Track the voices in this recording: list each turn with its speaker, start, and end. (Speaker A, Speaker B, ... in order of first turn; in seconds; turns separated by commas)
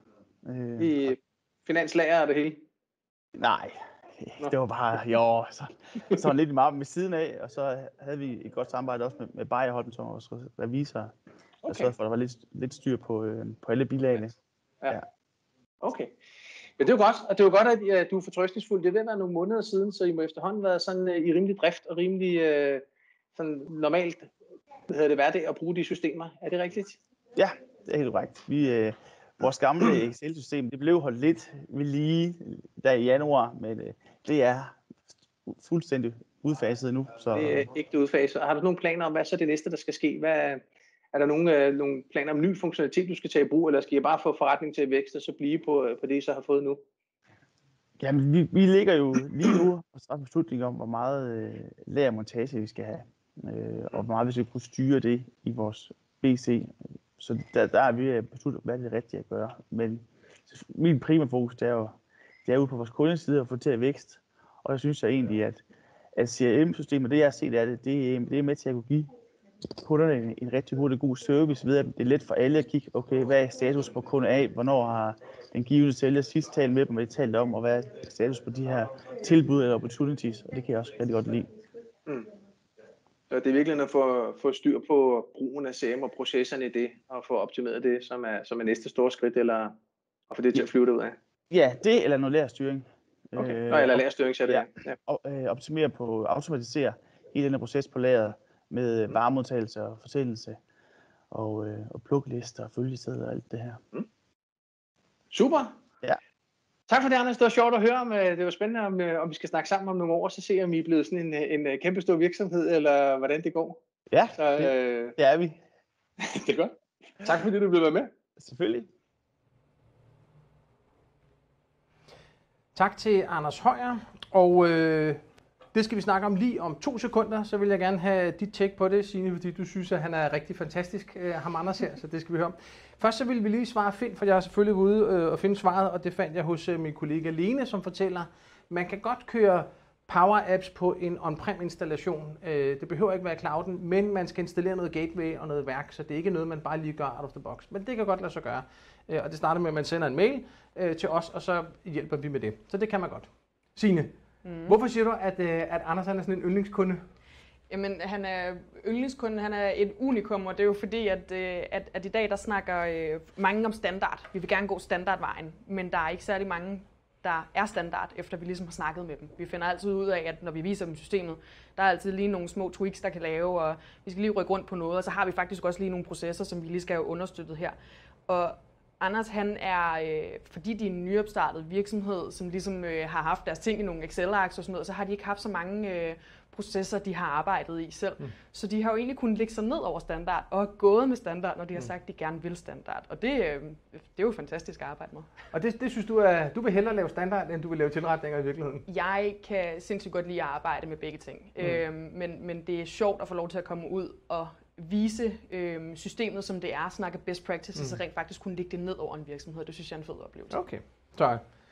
Speaker A: 0.5-1.2, Speaker B: 0.8-2.6, Speaker A: 3.4-11.1, Speaker B: 11.6-11.9, Speaker A: 11.7-14.3, Speaker B: 15.8-16.1, Speaker B: 16.8-24.3, Speaker B: 24.9-27.0, Speaker A: 27.4-34.8, Speaker A: 35.5-37.7, Speaker B: 37.3-46.8, Speaker A: 48.0-65.6, Speaker A: 66.2-69.1, Speaker A: 69.8-81.5, Speaker B: 83.3-89.7, Speaker B: 90.3-91.2, Speaker A: 91.5-100.6, Speaker B: 93.4-95.0, Speaker A: 101.3-103.8, Speaker B: 105.3-105.8, Speaker B: 106.9-113.8, Speaker A: 114.1-115.6, Speaker B: 114.4-115.2, Speaker B: 116.2-118.1, Speaker A: 118.4-118.9, Speaker B: 122.8-125.2, Speaker B: 125.7-154.1, Speaker C: 154.4-154.8, Speaker B: 154.7-157.0, Speaker C: 157.7-177.8, Speaker C: 178.3-195.3, Speaker B: 195.5-198.8, Speaker C: 198.9-210.6, Speaker B: 210.5-211.4